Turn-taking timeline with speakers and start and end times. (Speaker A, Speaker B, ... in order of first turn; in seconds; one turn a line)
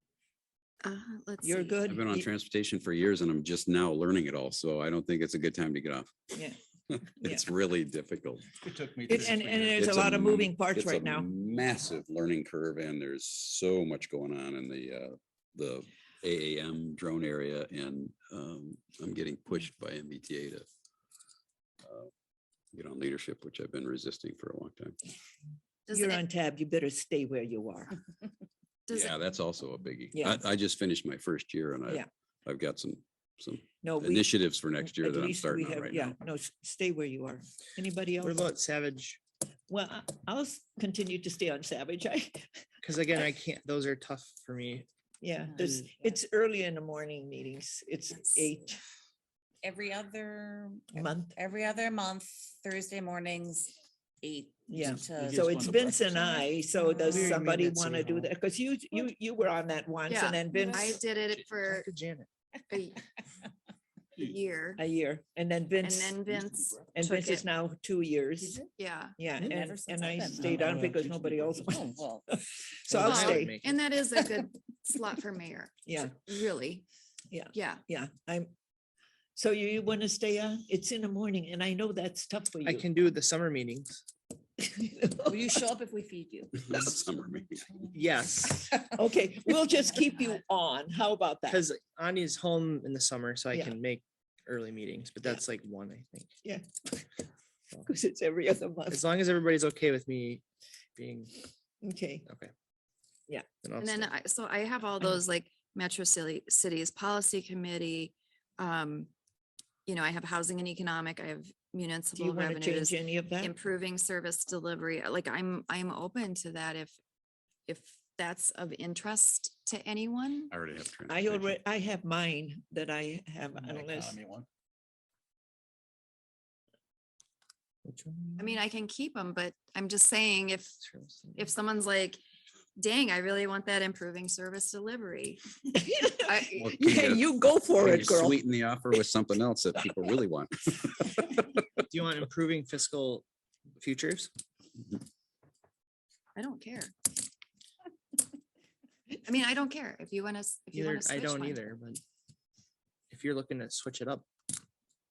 Speaker A: 0.8-1.8
Speaker B: 1.4-2.3
Speaker C: 1.9-6.4
Speaker B: 6.3-6.6
Speaker C: 6.9-20.7
Speaker B: 7.2-7.5
Speaker D: 8.7-9.6
Speaker B: 9.1-11.3
Speaker C: 21.8-22.1
Speaker C: 22.7-25.0
Speaker A: 25.9-26.2
Speaker B: 25.9-28.0
Speaker A: 28.9-29.1
Speaker C: 28.9-36.1
Speaker B: 30.1-30.4
Speaker B: 33.8-38.4
Speaker E: 38.2-39.2
Speaker B: 39.7-42.5
Speaker E: 42.8-44.9
Speaker B: 45.2-48.8
Speaker F: 45.5-46.2
Speaker F: 49.6-56.5
Speaker B: 50.9-51.4
Speaker B: 54.7-61.0
Speaker D: 54.8-56.4
Speaker E: 57.1-58.3
Speaker A: 60.1-61.9
Speaker E: 61.4-62.3
Speaker A: 62.7-63.0
Speaker A: 64.2-64.8
Speaker B: 64.8-66.2
Speaker A: 65.8-67.5
Speaker B: 66.9-68.6
Speaker A: 68.8-69.2
Speaker B: 69.2-73.5
Speaker F: 69.4-70.9
Speaker D: 70.3-71.6
Speaker F: 71.6-72.3
Speaker E: 72.9-73.8
Speaker A: 73.0-76.8
Speaker B: 75.9-76.2
Speaker B: 77.3-78.5
Speaker A: 77.5-77.8
Speaker B: 79.4-82.9
Speaker E: 82.7-84.0
Speaker B: 84.6-85.5
Speaker F: 85.2-86.7
Speaker C: 86.5-87.7
Speaker E: 87.9-88.7
Speaker B: 88.7-91.6
Speaker E: 91.5-96.3
Speaker B: 96.4-97.0
Speaker B: 97.9-99.0
Speaker E: 98.9-100.4
Speaker E: 101.0-101.3
Speaker B: 101.8-102.3
Speaker E: 102.3-102.5
Speaker E: 103.6-104.1
Speaker A: 103.8-109.1
Speaker A: 109.9-116.9
Speaker B: 112.2-113.5
Speaker A: 117.7-120.5
Speaker C: 120.5-121.6
Speaker B: 121.1-124.2
Speaker D: 123.5-124.5
Speaker E: 127.8-128.6
Speaker A: 128.4-130.8
Speaker E: 130.8-131.5
Speaker A: 131.4-132.2
Speaker A: 132.8-135.4
Speaker B: 135.8-138.4
Speaker A: 136.2-136.8
Speaker C: 136.6-137.3
Speaker C: 137.8-141.6
Speaker E: 141.9-143.2
Speaker E: 143.8-144.3
Speaker A: 146.4-146.9
Speaker A: 149.2-151.6
Speaker E: 150.7-152.0
Speaker E: 153.1-154.3